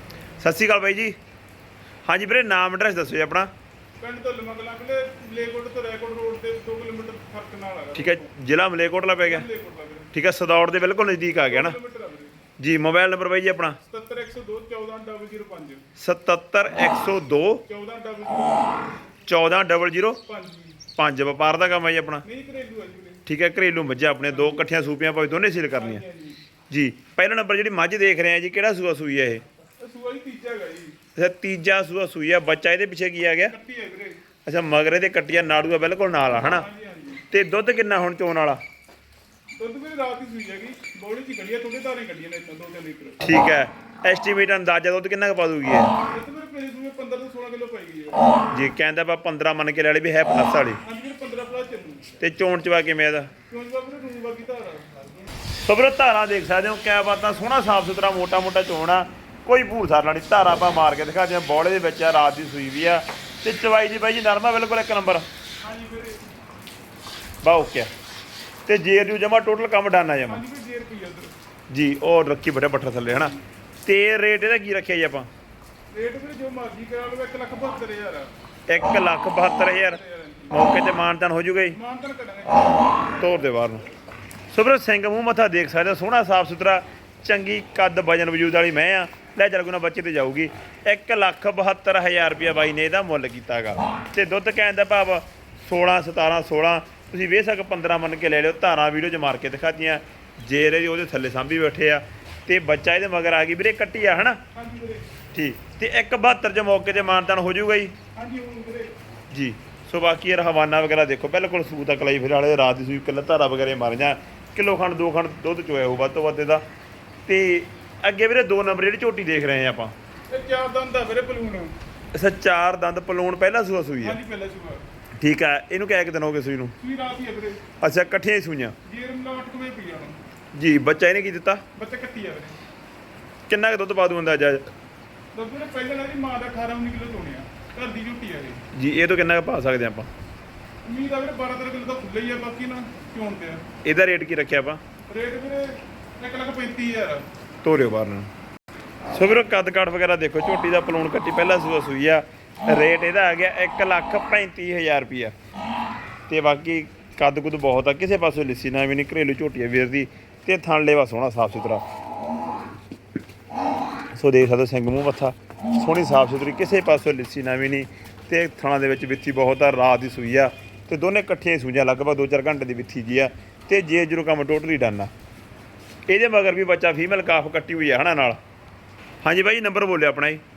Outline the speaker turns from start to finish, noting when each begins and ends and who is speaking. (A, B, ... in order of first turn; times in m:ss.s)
0:00.4-0:01.2 A
0:02.1-0:03.5 A
0:04.0-0:08.3 B
0:08.0-0:09.4 A
0:09.2-0:10.1 B
0:10.1-0:11.8 A
0:11.4-0:12.4 B
0:12.6-0:13.8 A
0:13.8-0:15.8 B
0:16.0-0:17.6 A
0:17.7-0:18.8 B
0:19.3-0:20.2 A
0:20.3-0:20.8 B
0:21.0-0:22.2 A
0:22.2-0:23.2 B
0:23.3-0:26.0 A
0:24.3-0:24.7 B
0:25.7-0:26.4 B
0:26.7-0:29.4 A
0:29.8-0:31.0 B
0:31.2-0:33.5 A
0:33.5-0:34.2 B
0:34.5-0:36.7 A
0:36.3-0:37.2 B
0:37.3-0:38.6 A
0:39.6-0:43.2 B
0:43.2-0:46.0 A
0:46.0-0:48.3 B
0:48.5-0:50.8 A
0:50.8-0:52.2 B
0:52.2-0:53.3 A
0:53.5-0:55.0 B
0:55.6-1:05.2 A
1:05.6-1:06.2 B
1:07.4-1:07.9 A
1:08.7-1:10.4 A
1:10.3-1:11.3 B
1:11.7-1:13.3 A
1:13.8-1:15.3 A
1:15.9-1:18.3 B
1:18.7-1:21.8 A
1:19.7-1:20.6 B
1:21.7-1:23.2 B
1:23.2-1:23.8 A
1:24.5-1:44.4 A
1:44.5-1:45.1 B
1:45.3-1:47.9 A
1:48.2-1:48.9 B
1:49.3-1:56.6 A
1:57.3-1:59.9 A
2:00.3-2:01.8 B
2:02.1-2:04.2 A
2:04.0-2:04.9 B
2:05.2-2:06.8 A
2:06.8-2:07.6 B
2:07.8-2:08.8 A
2:08.9-2:10.2 B
2:10.5-2:11.6 A
2:11.8-2:12.6 B
2:13.5-2:14.7 A
2:15.3-2:18.6 B
2:18.7-2:20.1 A
2:20.8-2:23.6 B
2:23.8-2:24.8 A
2:25.1-2:27.3 B
2:27.6-2:28.3 A
2:29.1-2:35.3 A
2:36.3-2:41.8 A
2:44.2-2:55.1 A
2:56.1-2:58.4 A
2:59.2-3:00.4 A